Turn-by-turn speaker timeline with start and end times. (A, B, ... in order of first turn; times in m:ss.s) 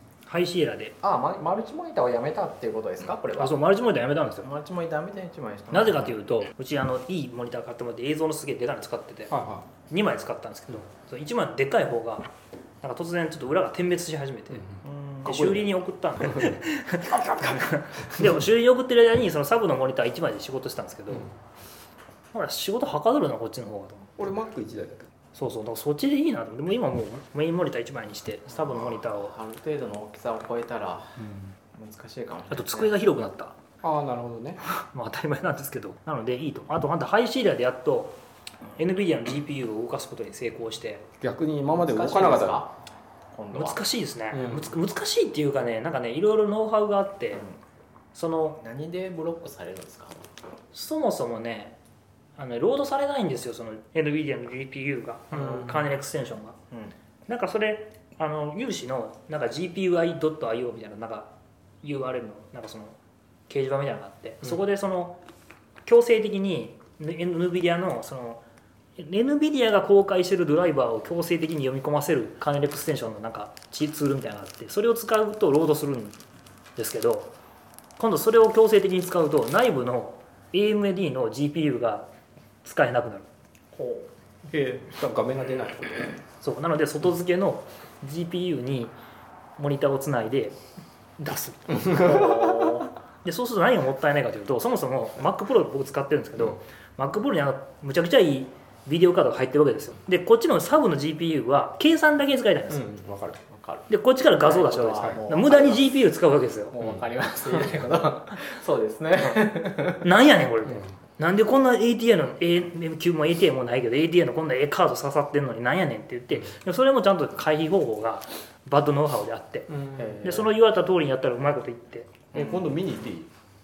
0:00.3-0:01.0 A
0:01.0-0:03.6 B
0:03.4-0:04.5 A
0:04.4-0:06.2 B
0:05.7-0:09.3 A
0:09.3-0:09.7 C
0:09.9-0:12.3 A
0:12.8-0:14.7 A
0:14.8-0:15.5 B
0:15.2-0:21.3 A
0:15.3-0:15.6 C
0:17.1-0:18.2 C
0:22.3-0:24.1 A
0:24.2-0:25.1 C
0:25.3-0:29.4 A
0:28.5-0:33.0 B
0:32.5-0:33.6 A
0:33.8-0:34.6 C
0:34.7-0:38.2 A
0:38.8-0:41.1 A
0:41.2-0:42.6 C
0:41.8-0:42.8 B
0:43.3-0:43.8 B
0:43.5-0:47.4 A
0:44.3-0:44.7 C
0:48.1-0:48.6 A
0:48.6-0:50.3 B
0:50.7-0:51.8 A
0:52.4-0:56.6 A
0:57.3-1:03.0 A
1:03.5-1:05.2 A
1:05.8-1:08.4 A
1:09.0-1:16.2 A
1:16.8-1:17.3 A
1:18.0-1:22.1 A
1:22.6-1:23.3 A
1:23.7-1:24.1 B
1:24.5-1:26.2 C
1:26.4-1:29.0 A
1:29.6-1:30.6 A
1:31.2-1:32.0 A
1:31.8-1:32.4 C
1:31.9-1:32.9 B
1:33.2-1:42.9 A
1:42.7-1:43.4 C
1:43.5-1:45.9 B
1:43.9-1:46.8 A
1:46.7-1:50.1 B
1:50.0-1:59.7 A
1:59.7-2:00.1 C
2:00.0-2:00.6 B
2:00.2-2:02.2 A
2:02.3-2:03.3 C
2:02.3-2:02.6 B